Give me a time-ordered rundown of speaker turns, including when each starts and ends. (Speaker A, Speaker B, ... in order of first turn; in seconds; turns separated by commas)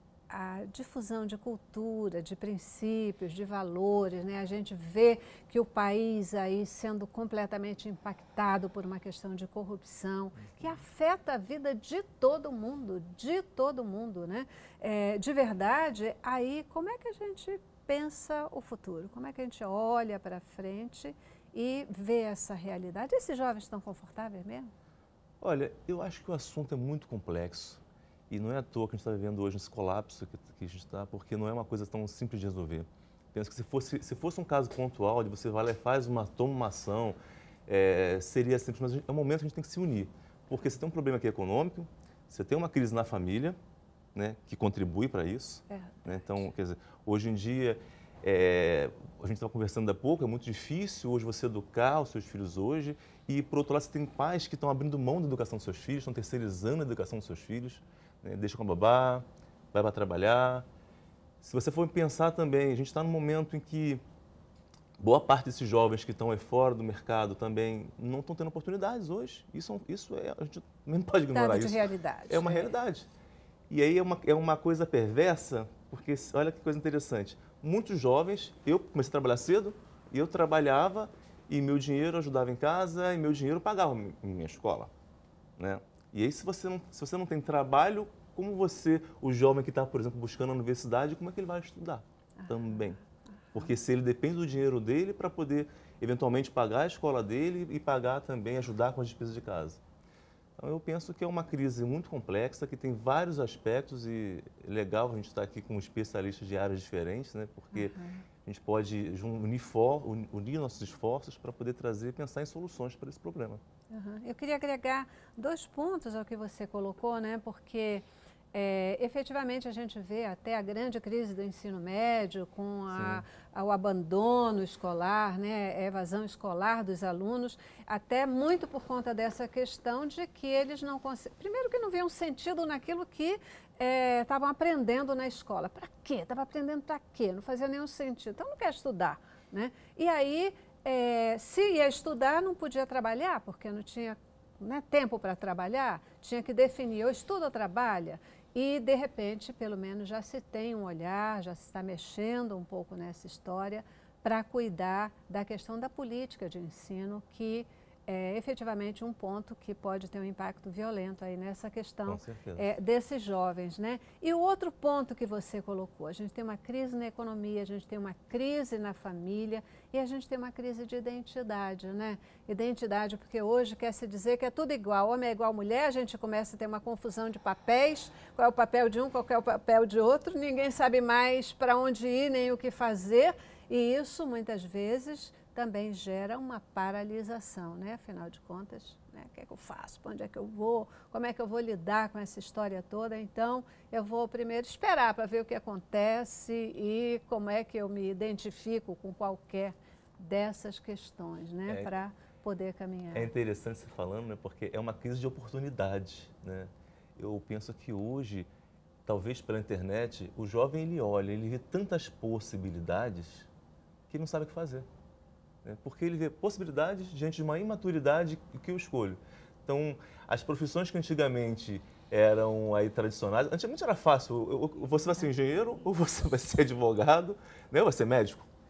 Speaker A: 0.3-24.7, Speaker B: 25.4-43.6, Speaker B: 44.1-60.7, Speaker A: 45.7-46.4, Speaker B: 61.4-64.0, Speaker B: 65.0-73.1, Speaker A: 71.3-72.7, Speaker B: 73.7-84.9, Speaker B: 85.6-93.0, Speaker A: 92.4-92.9, Speaker B: 93.5-99.8, Speaker B: 100.6-107.9, Speaker A: 107.7-108.2, Speaker B: 108.4-113.6, Speaker A: 113.9-203.3, Speaker B: 122.9-123.2, Speaker B: 162.1-162.7, Speaker B: 203.1-208.5, Speaker B: 209.1-213.5, Speaker B: 214.1-214.9, Speaker B: 215.6-228.5